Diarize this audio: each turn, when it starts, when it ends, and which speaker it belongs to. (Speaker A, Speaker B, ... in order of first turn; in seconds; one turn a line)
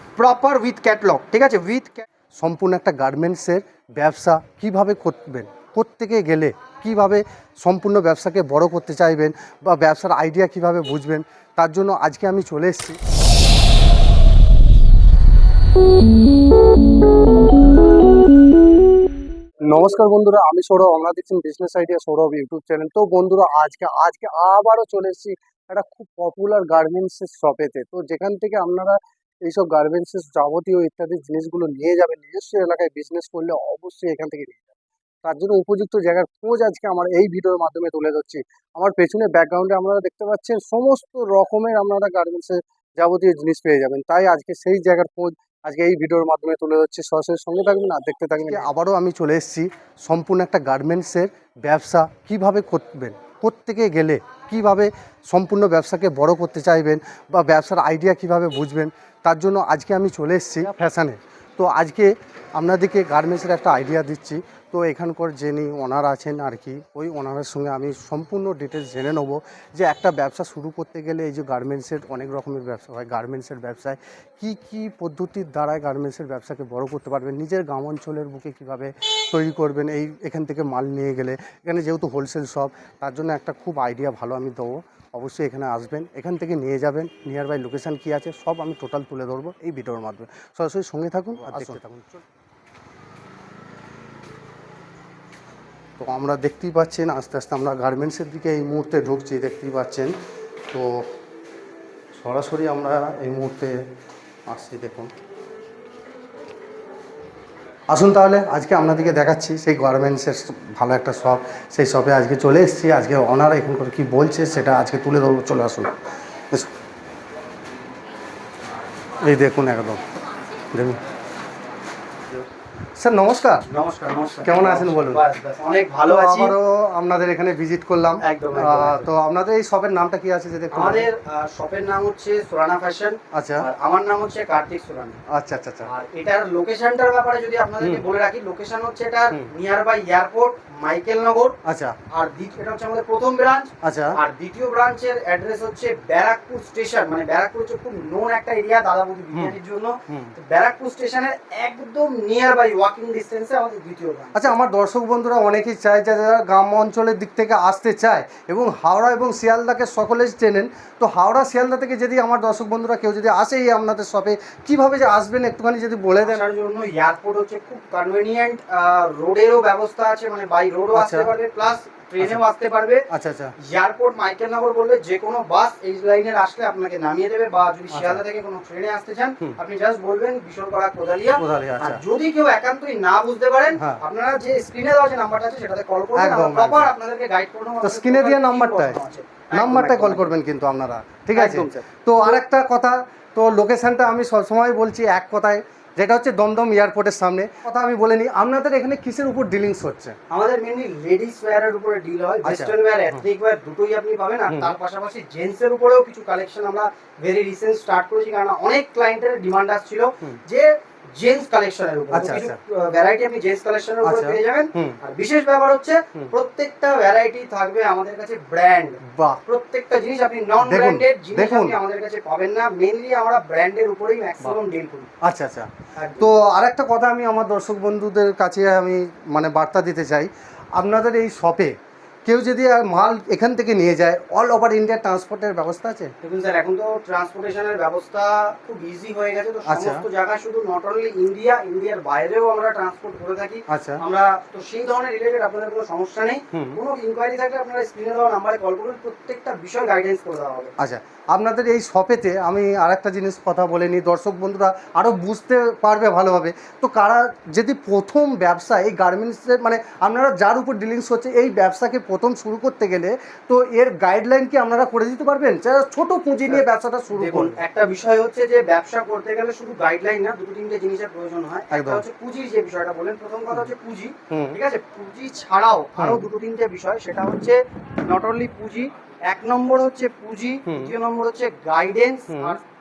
Speaker A: 0.2-2.0
Speaker B: 2.3-13.0
Speaker B: 19.7-92.2
Speaker B: 96.0-100.1
Speaker B: 100.7-101.1
Speaker B: 102.1-103.8
Speaker B: 104.5-105.1
Speaker B: 107.9-116.7
Speaker B: 119.2-120.0
Speaker B: 120.7-121.0
Speaker B: 123.0-123.7
Speaker A: 123.7-126.5
Speaker B: 124.4-125.2
Speaker B: 126.0-131.1
Speaker A: 128.2-129.1
Speaker A: 130.7-135.2
Speaker B: 133.3-133.7
Speaker B: 135.3-135.9
Speaker A: 135.8-141.6
Speaker B: 141.6-142.0
Speaker A: 142.1-154.5
Speaker B: 143.8-144.2
Speaker B: 154.3-166.4
Speaker A: 166.2-173.1
Speaker B: 170.9-171.3
Speaker B: 173.1-173.6
Speaker A: 173.6-190.3
Speaker B: 177.9-178.2
Speaker B: 181.3-182.0
Speaker B: 183.8-184.0
Speaker B: 186.1-186.9
Speaker B: 187.8-189.0
Speaker B: 189.5-200.2
Speaker A: 191.3-191.8
Speaker A: 200.3-225.1
Speaker B: 202.4-202.8
Speaker B: 204.5-204.7
Speaker B: 212.1-212.6
Speaker B: 214.0-215.0
Speaker B: 219.0-219.4
Speaker B: 220.6-221.8
Speaker B: 225.2-236.1
Speaker A: 225.9-226.3
Speaker A: 236.2-250.7
Speaker B: 239.7-240.0
Speaker B: 243.7-244.0
Speaker B: 246.5-246.8
Speaker B: 250.8-267.6
Speaker A: 266.4-282.6
Speaker B: 271.7-272.0
Speaker B: 274.3-274.6
Speaker B: 276.0-276.2